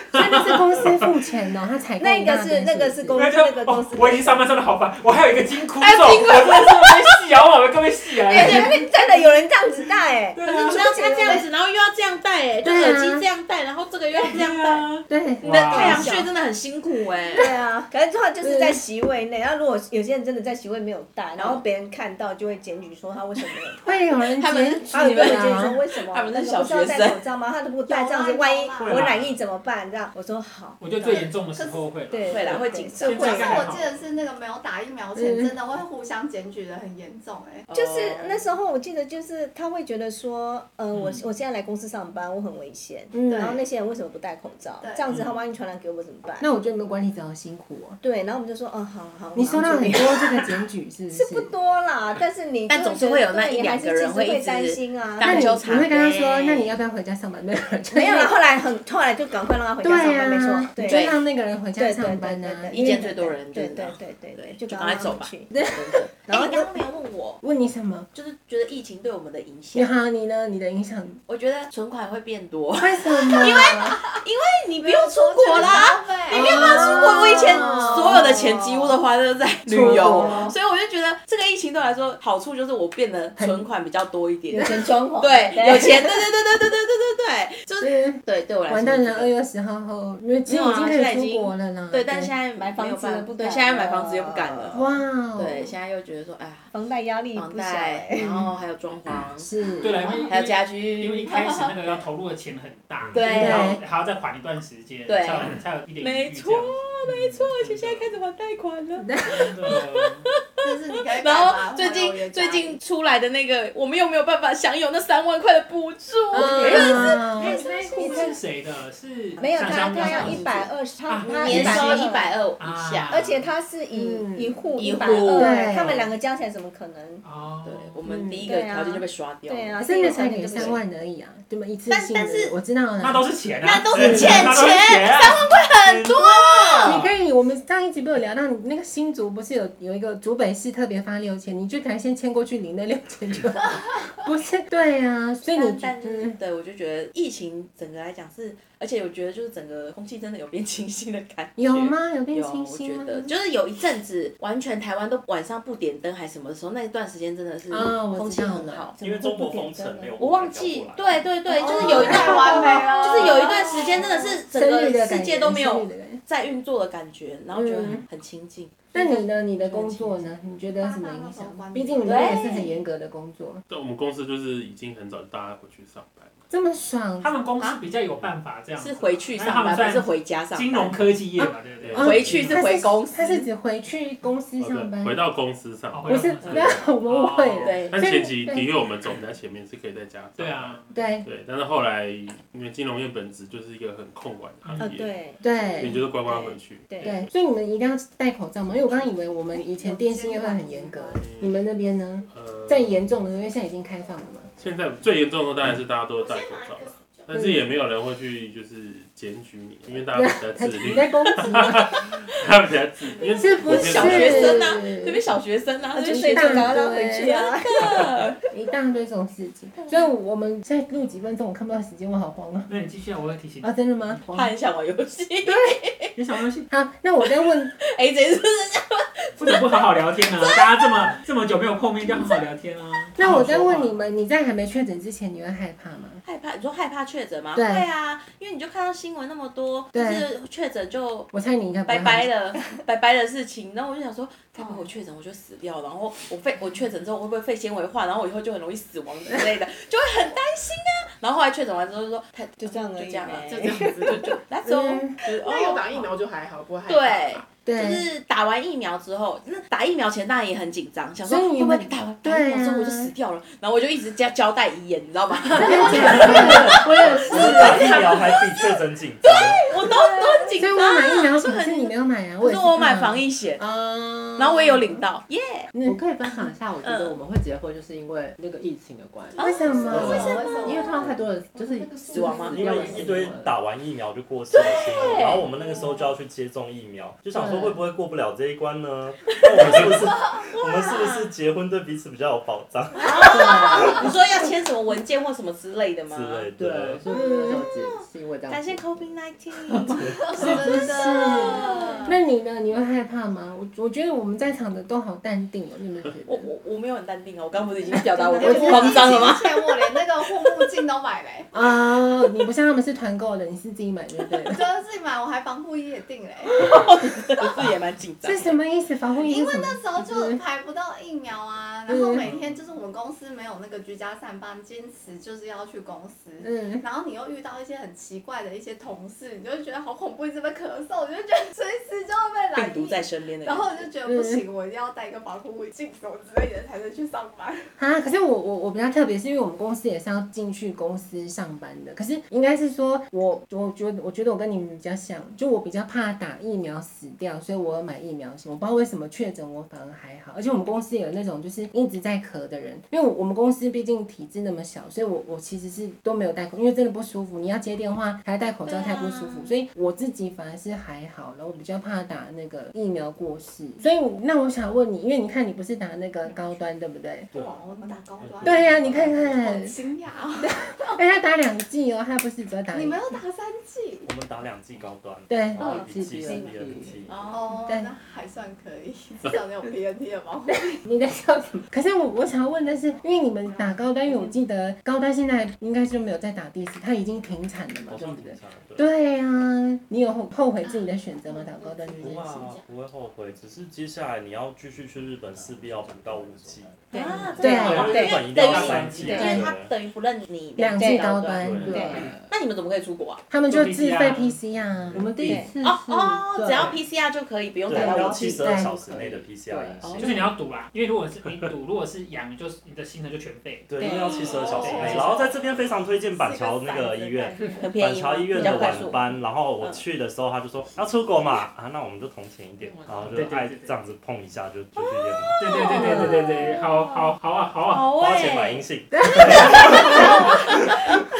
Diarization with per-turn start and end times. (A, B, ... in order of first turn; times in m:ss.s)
0:00.1-0:03.2 A
0:00.2-0:00.4 B
0:02.0-0:04.4 C
0:03.1-0:08.9 B
0:05.8-0:07.1 D
0:08.3-0:08.7 D
0:08.3-0:11.5 C
0:10.4-0:10.8 B
0:10.4-0:14.9 D
0:12.6-0:13.2 A
0:14.2-0:16.1 B
0:15.1-0:16.0 A
0:15.4-0:17.5 D
0:15.5-0:16.3 C
0:17.3-0:23.8 C
0:18.4-0:18.8 A
0:21.4-0:21.6 D
0:23.8-0:25.8 A
0:24.4-0:27.2 D
0:24.9-0:31.4 C
0:27.9-0:29.0 E
0:28.8-0:29.4 B
0:30.8-0:33.9 B
0:31.1-0:31.9 E
0:32.1-0:33.7 C
0:32.3-0:33.7 D
0:33.2-0:37.7 E
0:35.2-0:35.5 A
0:37.7-0:38.4 D
0:37.7-0:46.5 C
0:40.9-0:41.2 B
0:43.1-0:43.6 A
0:43.3-0:43.6 E
0:44.8-0:45.1 E
0:45.1-0:45.3 B
0:46.4-0:48.0 A
0:48.0-0:50.2 C
0:49.4-0:51.5 A
0:51.1-0:55.6 C
0:52.7-0:56.8 D
0:55.2-0:58.4 A
0:57.9-1:01.1 C
0:59.8-1:03.3 A
1:00.9-1:01.2 D
1:01.8-1:06.7 C
1:02.7-1:07.4 D
1:07.4-1:08.1 A
1:08.1-1:09.9 D
1:09.7-1:11.2 A
1:11.3-1:29.3 D
1:12.8-1:14.0 A
1:14.8-1:17.0 E
1:16.3-1:18.3 A
1:17.8-1:19.0 C
1:19.7-1:20.5 A
1:19.8-1:20.5 C
1:23.4-1:23.7 A
1:24.5-1:24.9 A
1:24.5-1:26.2 C
1:27.8-1:32.3 A
1:30.5-1:36.7 D
1:32.6-1:34.8 C
1:34.7-1:35.7 A
1:36.7-1:38.5 C
1:37.4-1:39.5 D
1:39.4-1:40.2 A
1:39.8-1:48.1 B
1:40.3-1:41.3 D
1:41.3-1:41.9 E
1:43.1-1:43.8 D
1:43.3-1:43.8 A
1:45.1-1:49.1 D
1:49.0-1:49.5 A
1:49.3-1:50.3 B
1:49.7-1:50.1 D
1:50.6-1:52.8 E
1:50.6-1:57.3 D
1:56.3-1:58.4 A
1:56.4-1:58.4 C
1:56.6-2:00.5 B
1:59.4-2:02.4 C
1:59.5-2:00.7 D
2:01.1-2:03.5 B
2:01.3-2:03.2 D
2:03.1-2:07.2 C
2:03.9-2:04.6 A
2:04.8-2:06.0 D
2:05.4-2:06.0 A
2:07.2-2:08.0 B
2:07.6-2:10.8 D
2:08.0-2:08.5 A
2:08.4-2:10.8 C
2:09.8-2:13.3 A
2:11.9-2:12.5 D
2:13.0-2:17.1 B
2:13.6-2:17.0 D
2:13.9-2:14.5 A
2:16.8-2:26.4 A
2:25.5-2:39.0 D
2:31.6-2:33.3 A
2:37.7-2:39.0 A
2:39.0-2:41.3 F
2:40.2-2:49.2 D
2:41.5-2:46.2 A
2:41.6-2:44.3 E
2:47.5-2:48.0 A
2:48.9-2:53.6 A
2:50.8-2:52.7 E
2:52.0-2:52.7 D
2:53.7-2:56.4 G
2:56.5-2:57.3 A
2:57.2-3:02.7 B
2:58.8-3:01.0 D
3:01.4-3:05.2 A
3:01.8-3:02.5 G
3:02.0-3:03.5 D
3:04.6-3:06.8 G
3:05.9-3:07.9 B
3:06.1-3:09.0 A
3:07.6-3:08.0 D
3:07.8-3:15.2 G
3:10.4-3:10.9 B
3:10.9-3:11.3 A
3:14.6-3:14.9 B
3:14.8-3:17.2 C
3:15.4-3:16.1 A
3:15.8-3:17.3 G
3:17.0-3:24.5 A
3:19.6-3:21.2 E
3:21.2-3:21.6 G
3:22.3-3:23.2 G
3:24.6-3:34.7 G
3:27.3-3:27.7 A
3:29.9-3:32.1 A
3:33.3-3:35.2 A
3:33.7-3:38.4 D
3:35.9-3:38.1 C
3:36.0-3:37.4 A
3:38.5-3:42.7 A
3:42.7-3:44.2 B
3:43.6-3:44.5 A
3:44.3-3:46.1 D
3:45.4-3:45.8 A
3:46.2-3:46.7 B
3:46.7-3:47.8 A
3:47.9-3:51.0 D
3:49.4-3:54.0 B
3:52.0-3:52.4 D
3:53.2-3:56.2 A
3:56.2-4:01.3 D
3:57.5-3:57.9 A
3:59.9-4:00.3 A
4:01.3-4:02.3 A
4:01.9-4:13.5 D
4:12.6-4:14.4 C
4:13.4-4:14.4 H
4:14.4-4:16.1 D
4:14.6-4:15.2 A
4:15.2-4:17.5 H
4:16.9-4:28.7 D
4:17.6-4:18.1 A
4:21.2-4:23.1 A
4:25.4-4:28.0 A
4:27.3-4:29.6 F
4:29.2-4:33.6 D
4:30.1-4:30.6 E
4:30.6-4:35.1 A
4:34.4-4:35.7 D
4:35.7-4:36.5 A
4:35.8-4:43.6 I
4:36.8-4:37.2 D
4:39.4-4:41.0 D
4:39.4-4:40.7 A
4:39.4-4:41.3 E
4:41.8-4:42.1 E
4:42.1-4:43.1 D
4:42.5-4:54.0 F
4:44.5-4:45.5 D
4:47.3-4:47.8 I
4:49.4-4:51.3 D
4:49.7-4:50.5 E
4:53.0-4:56.5 D
4:53.4-4:54.0 I
4:53.7-4:53.9 E
4:56.1-4:57.0 F
4:56.6-4:59.2 I
4:57.1-4:57.6 A
4:57.5-5:02.0 D
5:00.1-5:02.2 E
5:00.4-5:06.5 A
5:06.3-5:09.8 D
5:07.9-5:09.2 A
5:08.3-5:11.5 E
5:11.5-5:14.6 A
5:14.5-5:16.6 E
5:16.5-5:18.6 D
5:18.2-5:20.4 A
5:19.2-5:37.7 E
5:21.9-5:22.3 A
5:22.2-5:22.6 B
5:26.4-5:26.8 A
5:32.6-5:33.9 D
5:34.1-5:34.4 A
5:37.8-6:07.3 A
5:58.7-5:59.6 D
6:07.3-6:07.7 F
6:07.3-6:11.0 E
6:08.2-6:09.5 F
6:08.4-6:09.8 A
6:10.5-6:13.1 A
6:12.7-6:14.1 E
6:14.0-6:17.2 F
6:15.3-6:15.8 A
6:15.6-6:17.0 I
6:15.6-6:16.5 C
6:17.1-6:17.6 D
6:17.2-6:20.8 E
6:20.7-6:32.5 A
6:27.9-6:28.9 F
6:32.0-6:39.7 F
6:36.9-6:38.2 C
6:36.9-6:43.2 D
6:37.4-6:38.0 A
6:37.4-6:39.3 B
6:39.0-6:39.4 C
6:39.1-6:39.5 A
6:40.6-6:42.1 A
6:40.8-6:41.0 C
6:41.4-6:42.0 F
6:41.6-6:42.2 I
6:41.7-6:42.0 C
6:43.3-6:46.7 A
6:43.5-6:44.4 B
6:44.8-6:45.0 F
6:44.9-6:45.5 I
6:45.2-6:45.5 C
6:45.6-6:48.4 D
6:46.4-6:46.8 I
6:47.7-6:50.0 F
6:47.7-6:49.9 I
6:47.7-6:48.9 A
6:49.8-6:50.3 D
6:50.0-6:54.0 B
6:53.7-7:05.4 F
6:53.8-6:54.1 C
6:54.1-6:57.6 E
6:54.1-6:54.6 D
6:54.6-6:55.3 B
6:57.6-6:59.0 D
6:58.4-6:58.9 C
7:02.6-7:03.7 B
7:05.4-7:08.0 B
7:05.4-7:07.1 D
7:07.7-7:08.6 D
7:08.0-7:10.2 F
7:08.9-7:10.2 A
7:09.5-7:10.6 D